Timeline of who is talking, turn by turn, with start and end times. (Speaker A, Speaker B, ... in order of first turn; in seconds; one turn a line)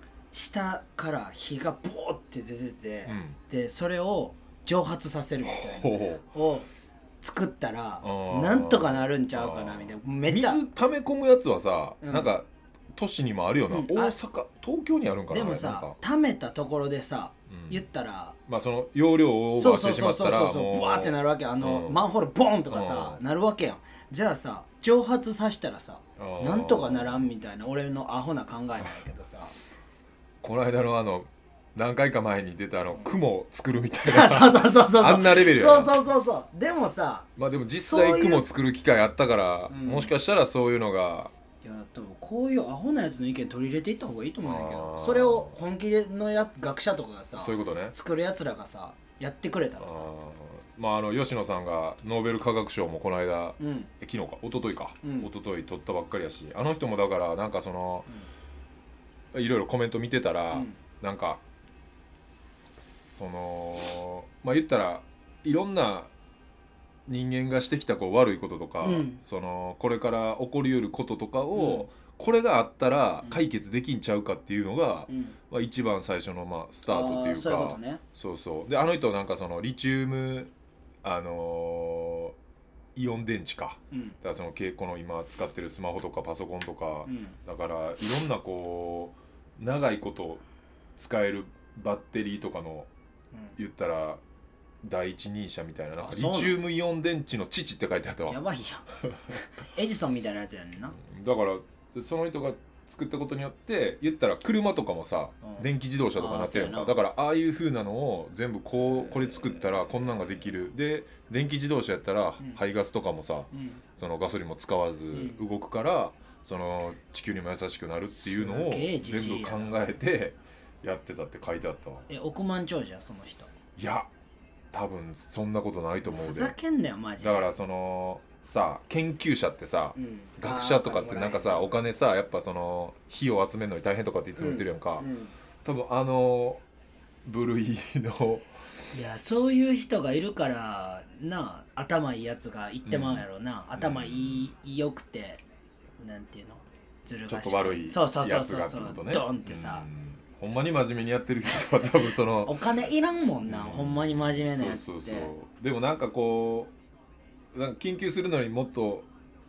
Speaker A: 0.3-6.7
Speaker B: 3.1-3.4
Speaker B: 5.5-6.2
Speaker A: 7.2-10.6
Speaker B: 8.0-16.0
Speaker A: 12.0-12.3
Speaker A: 13.7-14.1
Speaker A: 15.3-18.4
Speaker B: 17.5-17.8
Speaker B: 18.5-22.0
Speaker A: 19.6-29.6
Speaker B: 22.7-23.2
Speaker B: 26.2-27.3
Speaker B: 30.4-35.9
Speaker A: 34.0-37.3
Speaker B: 37.4-41.3
Speaker A: 37.8-38.5
Speaker A: 39.7-40.1
Speaker A: 41.6-50.1
Speaker B: 44.4-45.6
Speaker B: 47.4-48.0
Speaker B: 49.8-58.1
Speaker A: 53.6-53.9
Speaker A: 55.0-55.3
Speaker B: 59.3-61.4
Speaker A: 60.5-60.8
Speaker B: 62.8-66.1
Speaker B: 67.1-80.5
Speaker A: 68.8-69.2
Speaker A: 71.5-71.9
Speaker A: 75.1-75.4
Speaker A: 76.9-78.0
Speaker B: 81.0-82.3
Speaker B: 83.0-90.4
Speaker A: 83.9-84.2
Speaker A: 87.0-87.4
Speaker B: 91.0-92.9
Speaker B: 93.6-94.2
Speaker B: 94.8-98.4
Speaker A: 96.0-96.6
Speaker A: 98.3-101.0
Speaker B: 98.9-99.4
Speaker B: 101.0-122.1
Speaker A: 106.2-107.0
Speaker A: 108.8-109.8
Speaker A: 113.5-113.8
Speaker A: 115.1-115.4
Speaker A: 118.4-119.7
Speaker A: 122.1-123.5
Speaker B: 123.8-124.1
Speaker B: 124.7-126.5
Speaker A: 126.0-127.5
Speaker B: 127.2-135.1
Speaker A: 130.0-131.7
Speaker A: 134.4-135.3
Speaker B: 135.7-136.6
Speaker B: 137.2-138.5
Speaker A: 138.9-145.4
Speaker B: 142.9-144.5
Speaker A: 146.0-149.9
Speaker B: 147.3-152.6
Speaker A: 152.4-155.3
Speaker B: 153.5-156.7
Speaker B: 157.5-159.1